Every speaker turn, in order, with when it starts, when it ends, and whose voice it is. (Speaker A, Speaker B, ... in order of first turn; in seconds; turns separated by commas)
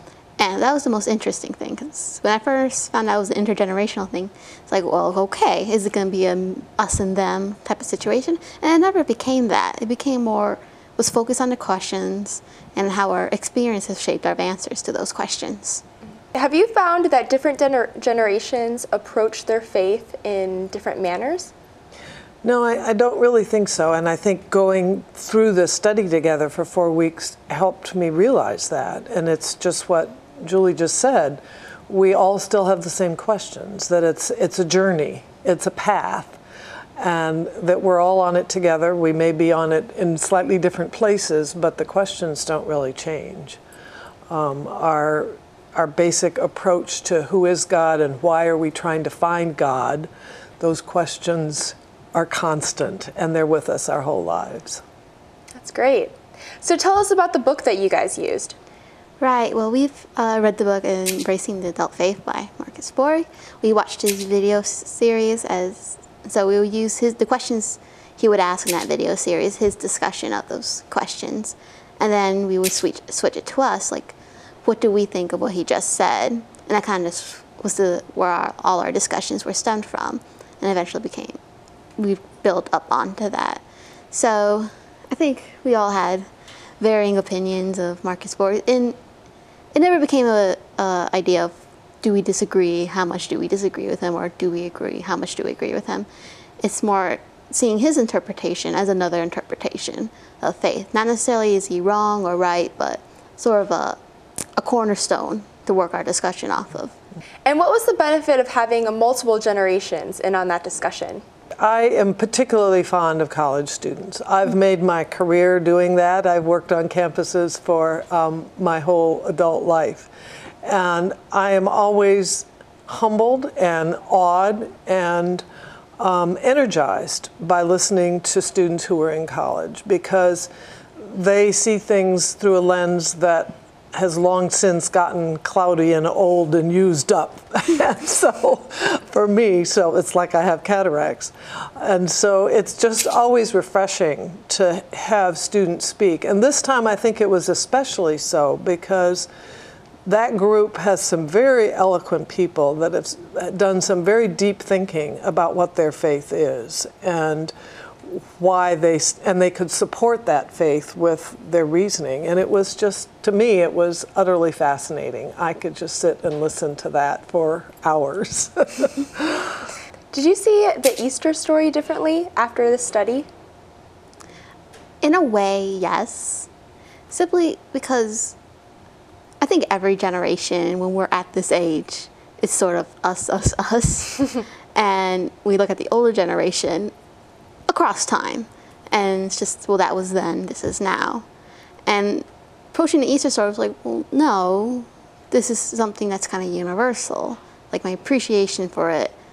Speaker A: 0.4-15.8, Speaker B: 16.3-21.5, Speaker C: 22.4-36.4, Speaker C: 37.0-43.6, Speaker C: 44.3-50.1, Speaker C: 50.6-54.8, Speaker B: 55.5-58.6, Speaker A: 59.2-81.4, Speaker A: 82.0-86.3, Speaker A: 86.8-89.0, Speaker A: 89.8-96.1, Speaker A: 96.6-104.0, Speaker A: 104.6-106.9, Speaker B: 107.5-111.2, Speaker C: 111.6-120.1, Speaker C: 120.6-125.5, Speaker C: 126.0-149.3, Speaker C: 150.1-157.5, Speaker C: 158.1-169.6, Speaker B: 170.1-173.3, Speaker A: 175.0-176.5, Speaker A: 177.1-178.4, Speaker A: 179.4-186.9, Speaker A: 187.7-191.2, Speaker A: 191.9-199.1